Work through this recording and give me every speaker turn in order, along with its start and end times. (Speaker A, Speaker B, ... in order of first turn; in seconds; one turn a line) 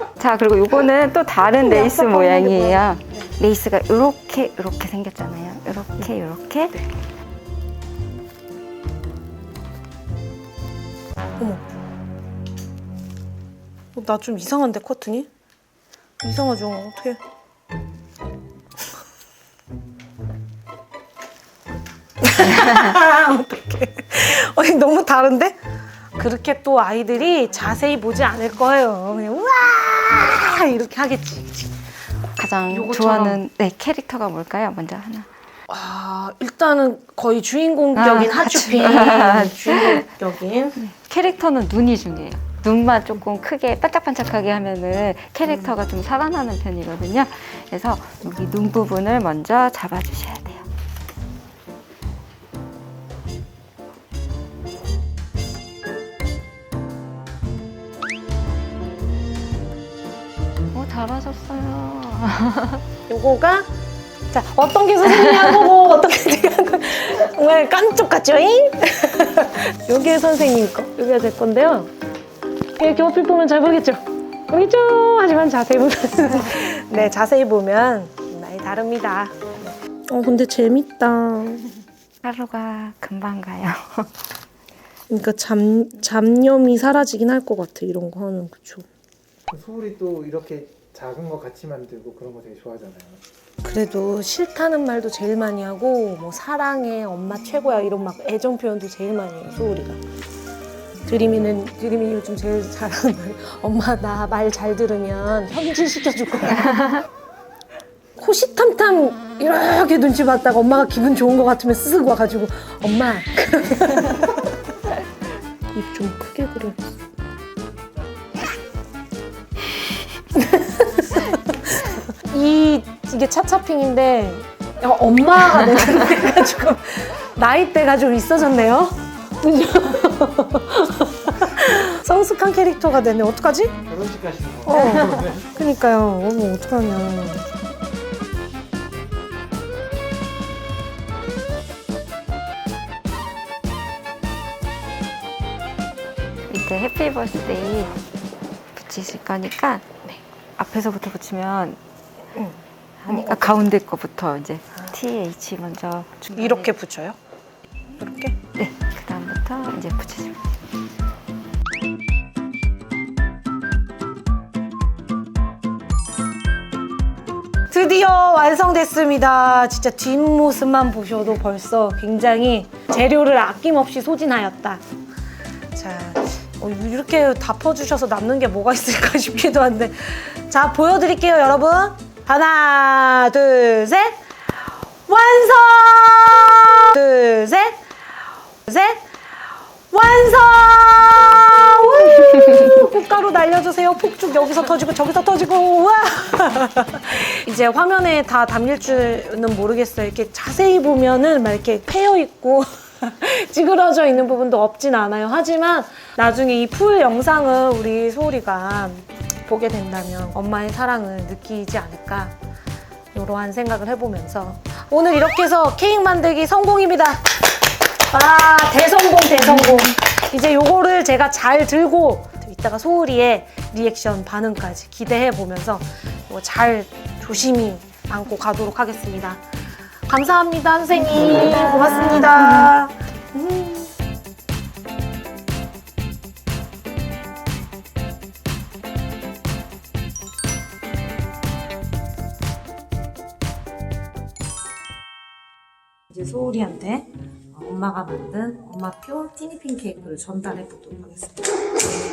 Speaker A: 0.2-6.8
Speaker B: 1.5-2.8
Speaker B: 13.9-15.3
Speaker B: 16.2-17.2
Speaker B: 22.2-25.6
Speaker B: 26.2-31.7
Speaker A: 32.4-35.3
Speaker B: 32.7-33.4
Speaker B: 35.7-40.8
Speaker A: 38.0-40.1
Speaker A: 40.8-50.7
Speaker A: 60.7-62.8
Speaker B: 63.1-63.7
Speaker B: 64.3-71.9
Speaker B: 72.8-81.7
Speaker A: 82.2-84.1
Speaker B: 85.1-88.9
Speaker C: 89.5-93.2
Speaker B: 93.6-100.0
Speaker B: 101.1-107.0
Speaker B: 108.2-114.5
Speaker B: 115.7-116.8
Speaker B: 120.4-133.8
Speaker C: 133.9-135.4
Speaker B: 134.7-137.5
Speaker A: 146.5-147.9
Speaker A: 148.8-149.9
Speaker A: 150.6-151.8
Speaker B: 152.3-153.7
Speaker A: 153.1-156.7
Speaker B: 156.3-157.2
Speaker B: 158.0-158.4
Speaker A: 158.6-160.5
Speaker B: 167.7-174.8
Speaker B: 175.7-184.2
Speaker B: 185.1-187.8
Speaker B: 188.7-189.1
Speaker B: 189.9-212.3
Speaker B: 213.1-217.5
Speaker B: 218.1-229.4
Speaker B: 230.1-233.9
Speaker B: 246.1-251.4